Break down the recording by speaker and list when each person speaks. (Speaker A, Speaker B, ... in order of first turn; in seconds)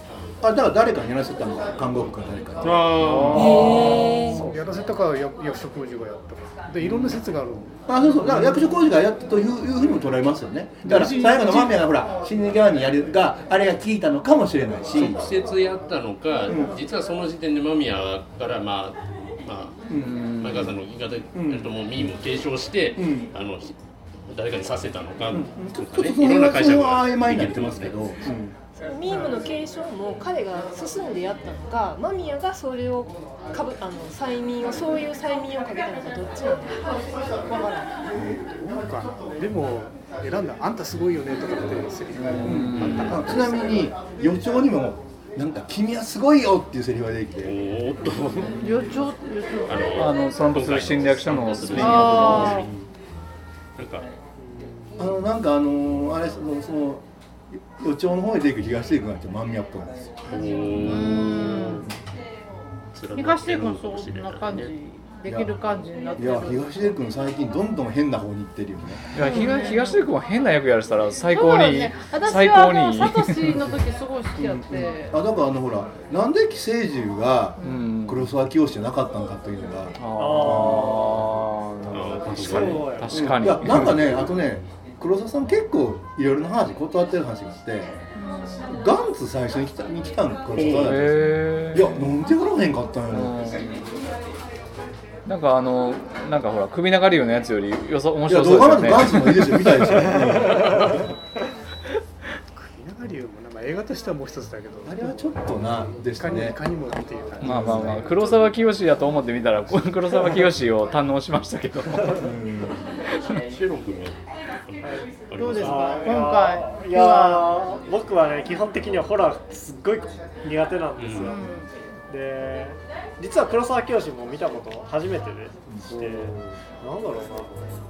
Speaker A: 0.4-2.9, 7.8-15.2, 16.5-16.7, 19.9-20.1, 21.3-21.7, 22.9-23.3, 25.3-28.5, 42.4-47.5, 51.7-52.5, 55.0-57.0, 57.5-61.2, 65.2-65.5, 66.2-69.2, 74.3-81.1, 83.1-87.9, 88.7-93.4, 98.3-100.9, 104.8-106.6, 107.4-108.0, 112.1-112.8
Speaker B: 2.6-3.8, 14.9-23.7, 24.3-28.0, 42.7-43.2, 47.4-48.6, 49.7-52.8, 53.8-54.1, 60.2-61.9, 62.9-64.7, 81.9-83.0, 90.5-91.0, 113.2-116.0, 121.0-121.3
Speaker C: 2.9-4.5, 20.0-20.7, 42.1-43.3, 48.5-48.9, 49.9-52.7, 69.1-73.6, 77.6-78.3, 80.0-84.0, 90.7-92.1, 93.1-93.8, 95.2-100.3, 107.4-112.3
Speaker D: 3.3-4.4, 28.8-36.9, 37.4-37.9
Speaker E: 3.5-8.5, 10.8-11.8, 38.6-43.5, 102.5-105.2, 106.2-108.5
Speaker F: 48.6-50.0, 51.8-52.6, 60.7-61.9, 63.1-66.9, 69.2-70.1, 71.3-75.2, 88.2-88.7, 115.6-117.5, 121.1-121.7
Speaker G: 80.2-81.2, 82.4-83.5, 114.8-121.5, 122.1-127.5